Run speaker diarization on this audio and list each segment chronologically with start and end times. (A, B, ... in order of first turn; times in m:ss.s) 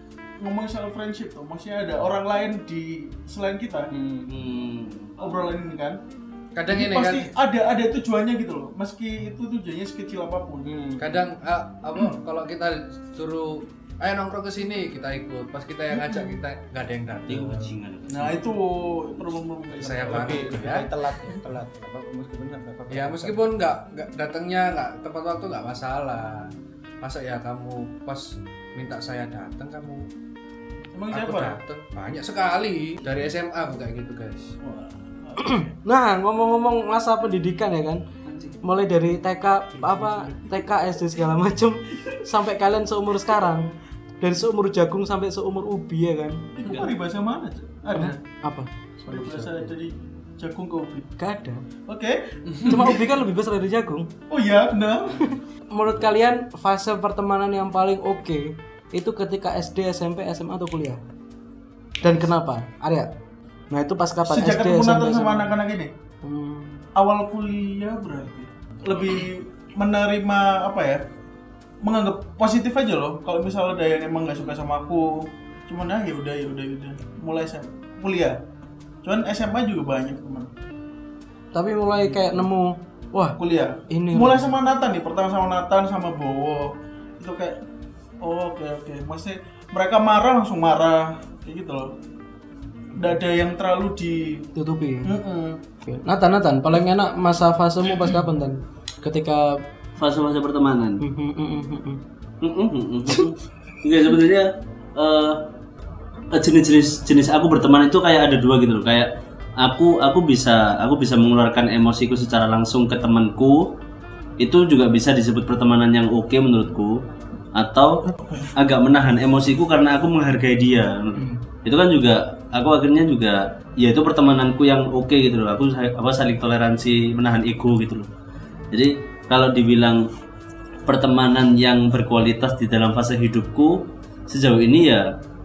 0:00.4-0:03.9 A
0:03.9-0:04.3 B
0:04.3-0:05.2 C
0:05.2-0:06.0 A
0:06.6-0:07.3 D
0:06.7-0:10.8 A
0:10.6-0:11.2 B
0:11.0-0:17.7 D
0:15.9-0:16.3 A
0:17.3-0:18.5 C
0:18.1-0:20.6 A
0:19.7-0:20.9 D
0:20.0-0:23.4 B
0:22.9-0:30.1 D
0:30.9-0:31.6 A
0:31.1-0:34.6 D
0:34.6-0:35.7 A
0:35.4-0:38.0 E
0:38.3-0:38.6 C
0:38.6-0:46.4 E
0:39.8-0:40.4 C
0:46.6-0:48.2 A
0:46.6-0:47.0 C
0:47.9-0:48.7 E
0:49.0-0:49.7 D
0:49.0-0:51.1 A
0:51.2-0:51.7 E
0:51.9-0:53.1 A
0:52.6-0:54.1 E
0:54.3-0:55.3 A
0:55.2-1:01.0 E
1:02.0-1:03.1 E
1:03.7-1:05.6 E
1:04.2-1:05.9 A
1:06.2-1:06.8 E
1:07.0-1:11.0 A
1:11.8-1:18.4 A
1:19.0-1:20.5 A
1:21.5-1:23.4 E
1:23.4-1:27.6 A
1:23.9-1:24.5 E
1:28.2-1:31.9 A
1:33.0-1:34.5 A
1:34.6-1:35.2 E
1:35.0-1:35.6 A
1:35.8-1:39.6 E
1:40.0-1:41.0 C
1:41.0-1:42.0 E
1:42.4-1:44.4 C
1:45.0-1:45.4 C
1:46.3-1:53.7 C
1:54.4-1:57.0 C
1:57.6-1:58.0 C
1:58.1-1:58.5 A
1:58.6-2:08.1 C
2:01.2-2:01.4 B
2:08.7-2:10.0 C
2:10.9-2:15.0 C